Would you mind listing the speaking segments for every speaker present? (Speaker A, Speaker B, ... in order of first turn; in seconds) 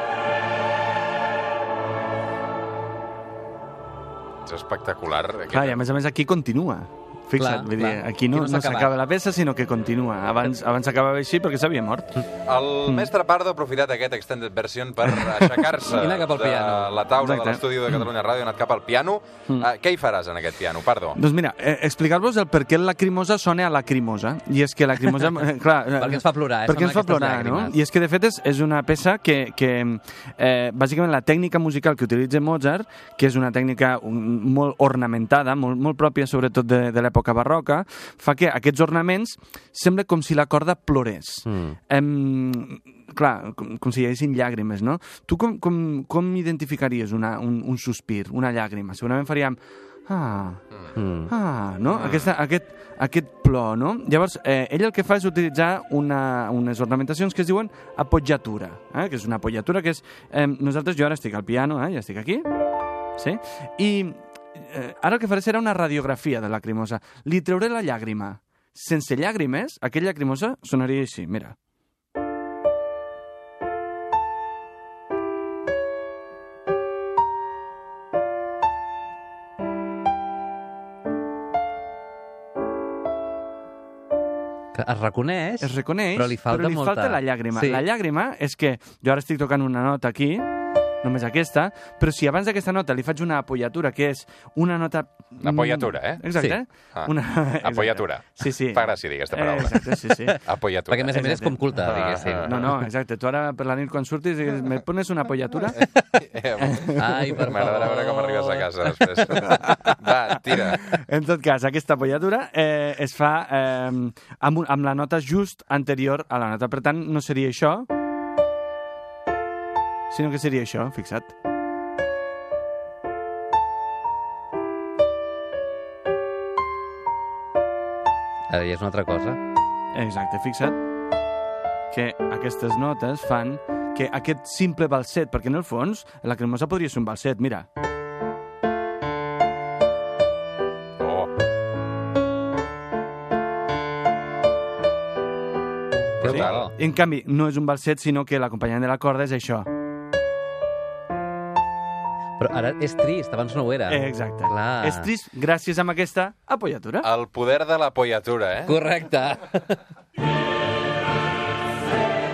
Speaker A: 4.5-5.8, 12.4-21.2, 52.0-52.3, 95.4-96.3, 96.9-101.2, 101.8-102.7, 105.8-110.8, 141.0-141.3, 146.2-146.7, 157.0-158.8
Speaker B: 5.5-12.2, 15.1-15.7, 17.2-17.6, 21.1-50.6, 51.3-62.5, 63.2-71.6, 85.6-90.5, 91.0-100.4, 101.0-105.9, 106.6-107.5, 109.2-117.9, 120.1-121.3, 129.9-130.8, 131.9-137.7, 146.2-149.7, 153.9-157.1
Speaker C: 7.4-9.0, 15.9-17.1, 25.9-27.8, 41.5-41.8, 51.0-51.3, 84.7-87.8, 100.9-102.8, 107.0-109.4, 128.5-129.4, 146.2-146.7, 152.4-155.1, 158.7-159.8